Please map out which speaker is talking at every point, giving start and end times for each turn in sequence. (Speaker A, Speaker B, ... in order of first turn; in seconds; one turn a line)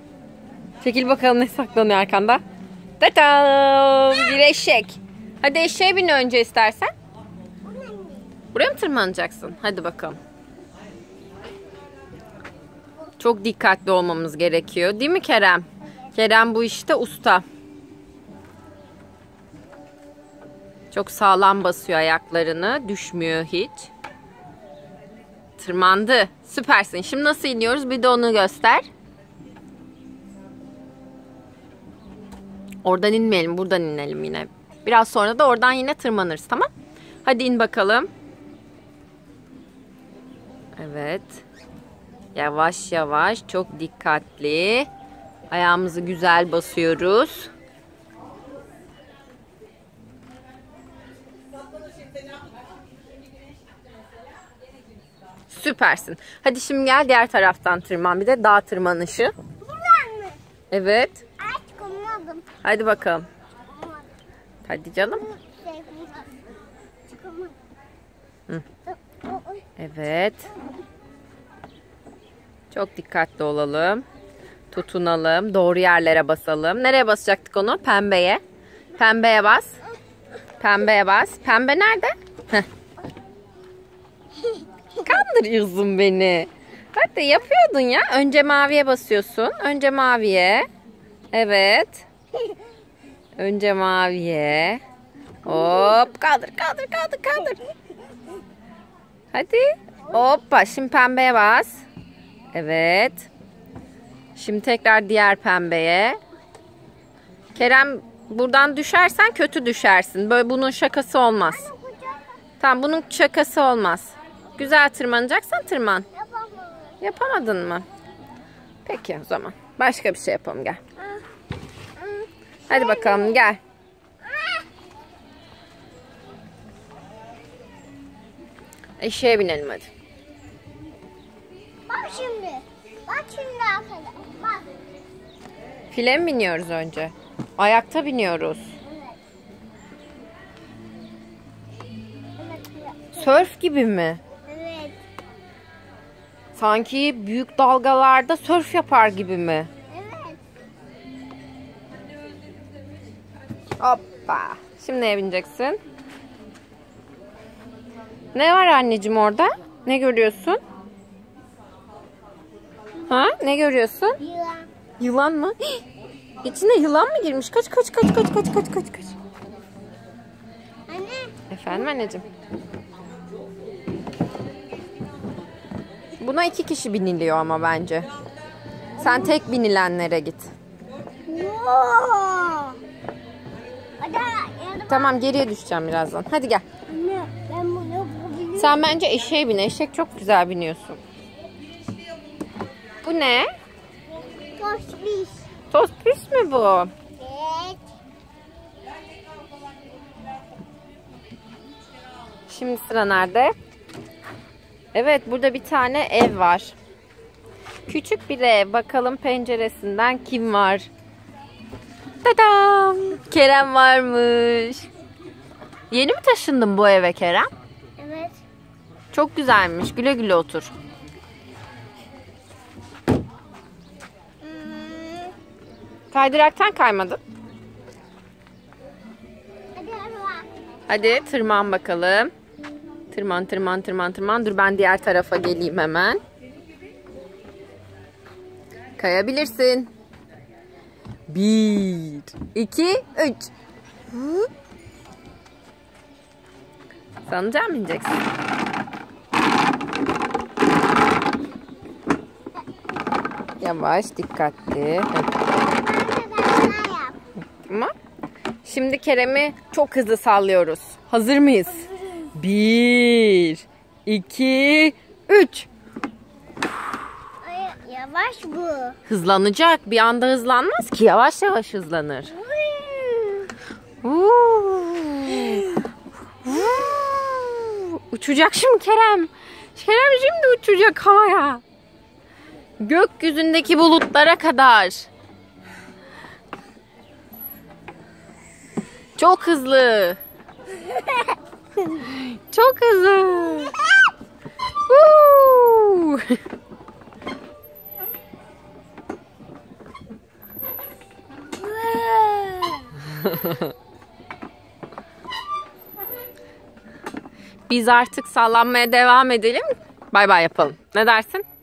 Speaker A: 0.8-2.4
Speaker A: 3.0-6.9
Speaker B: 7.7-8.3
Speaker A: 8.5-10.2
Speaker A: 13.2-17.4
Speaker A: 20.9-23.9
Speaker A: 25.6-28.9
Speaker A: 32.8-36.7
Speaker A: 37.2-38.1
Speaker A: 40.8-41.4
Speaker A: 42.4-44.9
Speaker A: 45.5-47.5
Speaker A: 55.5-59.3
Speaker B: 59.6-60.4
Speaker A: 60.7-61.2
Speaker B: 61.4-62.5
Speaker A: 62.6-63.3
Speaker B: 63.7-64.1
Speaker A: 64.7-65.2
Speaker B: 65.2-66.5
Speaker B: 67.1-67.6
Speaker B: 68.9-69.7
Speaker A: 69.8-70.5
Speaker A: 72.7-74.0
Speaker A: 74.7-78.4
Speaker A: 79.0-79.8
Speaker A: 80.6-82.7
Speaker A: 85.0-90.7
Speaker A: 91.3-92.1
Speaker A: 93.4-94.8
Speaker A: 95.5-97.6
Speaker B: 95.5-95.9
Speaker A: 99.3-101.8
Speaker A: 102.5-103.3
Speaker A: 104.4-106.2
Speaker A: 107.5-111.7
Speaker B: 111.5-112.3
Speaker A: 112.6-116.1
Speaker B: 116.1-117.0
Speaker A: 117.0-117.9
Speaker A: 118.8-120.8
Speaker B: 121.0-121.2
Speaker B: 122.0-123.5
Speaker A: 122.7-123.6
Speaker B: 124.2-124.7
Speaker A: 129.0-129.9
Speaker B: 131.9-134.7
Speaker A: 135.9-138.7
Speaker B: 138.8-139.2
Speaker B: 142.4-143.4
Speaker A: 143.2-144.2
Speaker B: 144.5-145.0
Speaker A: 146.6-149.7
Speaker B: 149.9-150.4
Speaker A: 153.8-155.8
Speaker A: 158.3-160.6
Speaker A: 163.1-164.2
Speaker B: 164.2-164.7
Speaker A: 165.0-165.8
Speaker A: 166.4-169.2
Speaker B: 170.9-171.3
Speaker A: 171.5-172.2
Speaker A: 176.2-178.1
Speaker B: 179.0-179.4
Speaker A: 179.0-180.5
Speaker B: 181.3-182.8
Speaker B: 184.0-185.3
Speaker A: 184.9-186.6
Speaker B: 186.9-188.8
Speaker A: 188.6-191.0
Speaker A: 193.0-193.5
Speaker B: 194.6-195.5
Speaker A: 195.7-196.9
Speaker B: 197.2-197.8
Speaker A: 202.5-203.5
Speaker A: 204.9-206.8
Speaker A: 207.9-210.9
Speaker A: 212.2-214.9
Speaker A: 215.9-217.5
Speaker B: 218.0-218.4
Speaker A: 219.1-220.7
Speaker B: 224.4-225.3
Speaker A: 226.1-227.2
Speaker B: 229.8-230.5
Speaker A: 230.9-232.3
Speaker A: 233.1-236.2
Speaker A: 239.0-239.9
Speaker A: 241.3-243.5
Speaker A: 244.1-244.5
Speaker A: 247.3-248.2
Speaker A: 253.6-255.4
Speaker B: 255.7-257.2
Speaker A: 257.6-257.9
Speaker A: 258.6-265.7
Speaker B: 261.9-262.3
Speaker B: 267.4-269.0
Speaker A: 269.1-272.3
Speaker B: 272.3-273.5
Speaker A: 274.0-275.7
Speaker A: 276.4-281.6
Speaker A: 282.8-285.1
Speaker A: 289.2-290.2
Speaker A: 291.9-293.8
Speaker A: 294.9-296.4
Speaker B: 301.6-302.9
Speaker A: 307.7-311.4